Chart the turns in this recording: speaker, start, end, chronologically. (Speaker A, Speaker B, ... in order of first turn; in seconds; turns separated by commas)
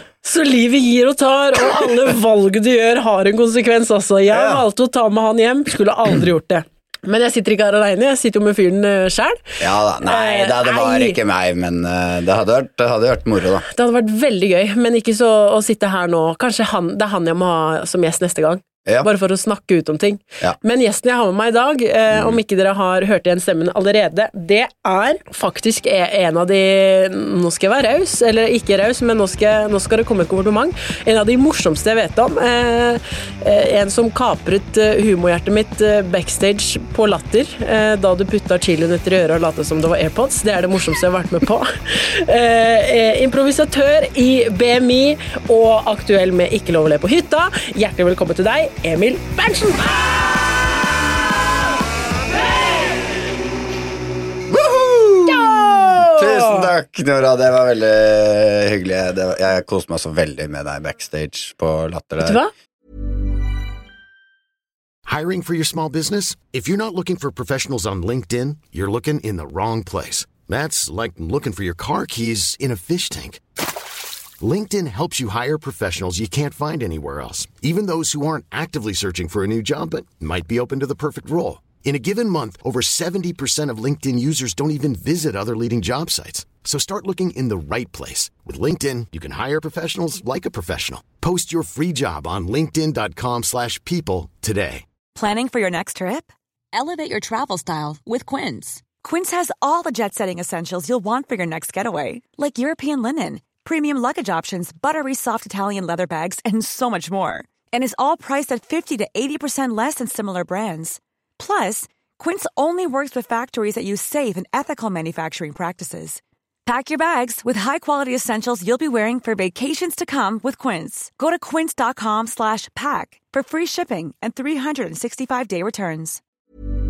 Speaker A: 0.2-9.5, Speaker B: 4.3-4.6, Speaker B: 9.6-13.7, Speaker A: 10.0-11.2, Speaker A: 13.7-50.1, Speaker B: 22.1-22.4, Speaker B: 54.5-62.4, Speaker A: 55.3-56.7, Speaker A: 62.2-62.5, Speaker C: 65.0-73.4, Speaker C: 74.4-94.8, Speaker D: 95.1-126.2